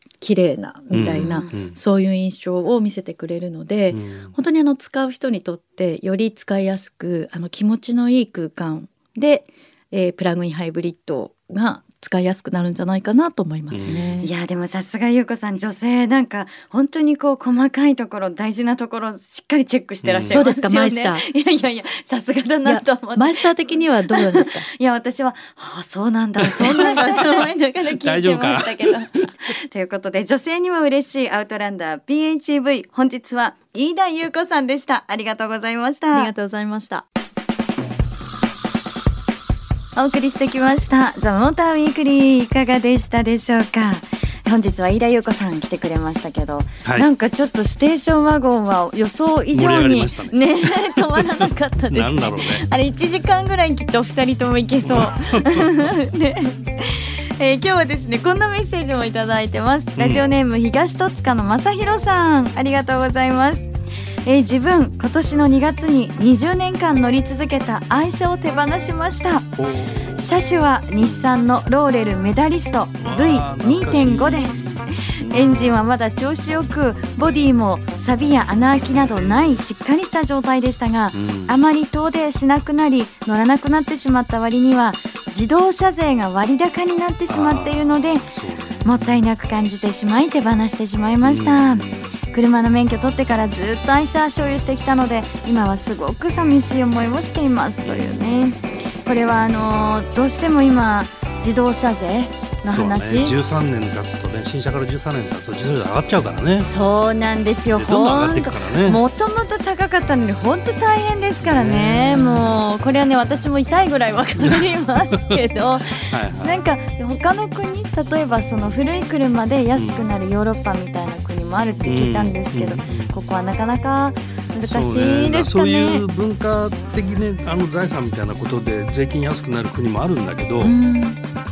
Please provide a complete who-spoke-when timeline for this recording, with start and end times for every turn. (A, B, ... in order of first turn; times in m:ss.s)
0:00.2-0:14.3 A
0:00.9-0:01.8 B
0:01.1-0:01.5 C
0:03.9-0:04.3 B
0:13.7-0:14.3 B
0:14.2-0:23.5 C
0:20.0-0:20.4 B
0:20.3-0:21.2 A
0:22.7-0:24.7 A
0:24.1-0:36.3 C
0:26.4-0:29.3 B
0:26.6-0:27.5 A
0:36.1-0:37.0 A
0:40.0-1:03.7 C
0:49.5-0:52.6 B
0:54.8-0:55.9 B
1:00.0-1:00.3 B
1:04.2-1:09.6 C
1:09.6-1:10.3 B
1:10.2-1:28.3 C
1:11.0-1:11.3 B
1:13.0-1:15.8 B
1:18.9-1:19.6 B
1:21.1-1:21.6 B
1:27.3-1:29.0 B
1:28.8-1:43.4 C
1:31.2-1:32.1 B
1:37.8-1:38.3 B
1:42.7-1:46.7 B
1:46.6-2:06.0 C
1:47.7-1:49.0 B
1:51.4-1:52.4 B
1:54.4-1:54.6 B
1:56.0-1:56.6 B
1:59.7-2:00.0 B
2:01.8-2:03.1 B
2:04.6-2:10.8 B
2:10.6-2:11.2 C